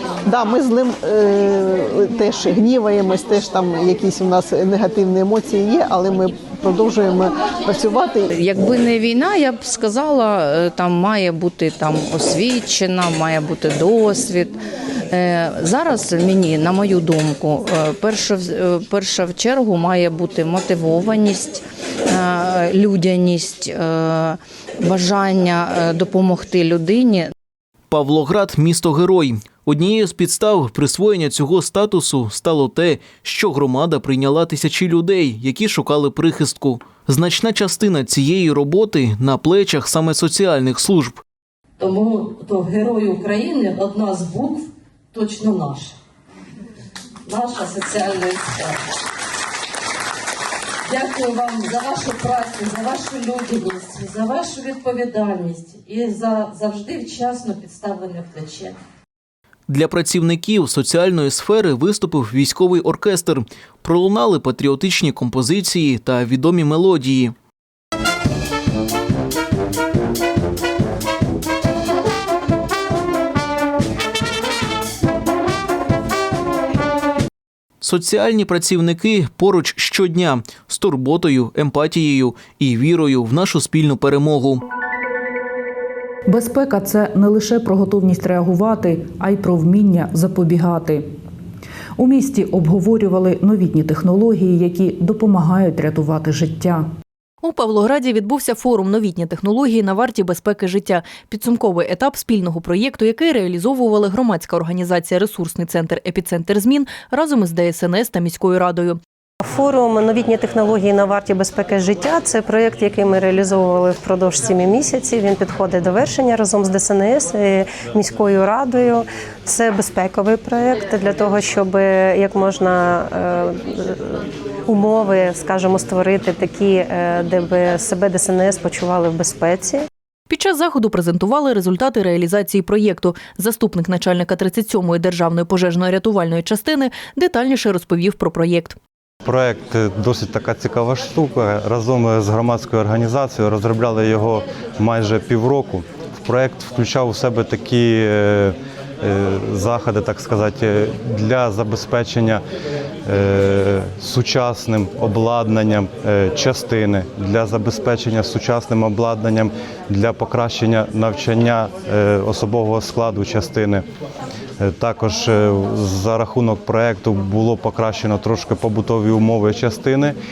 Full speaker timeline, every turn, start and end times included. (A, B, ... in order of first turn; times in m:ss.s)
0:00.2-0:08.3 A
0:08.3-0:14.6 B
0:15.1-0:27.3 B
0:27.9-0:41.2 C
0:41.8-0:45.9 D
0:47.3-0:48.8 D
0:50.8-0:58.8 D
0:59.7-1:07.3 C
1:17.8-1:24.6 C
1:26.3-1:31.1 E
1:32.0-1:36.8 E
1:37.4-1:49.0 F
1:49.4-2:09.8 G
2:10.3-2:18.8 F
2:19.2-2:32.4 H
2:33.0-2:43.8 H
2:44.6-2:50.2 H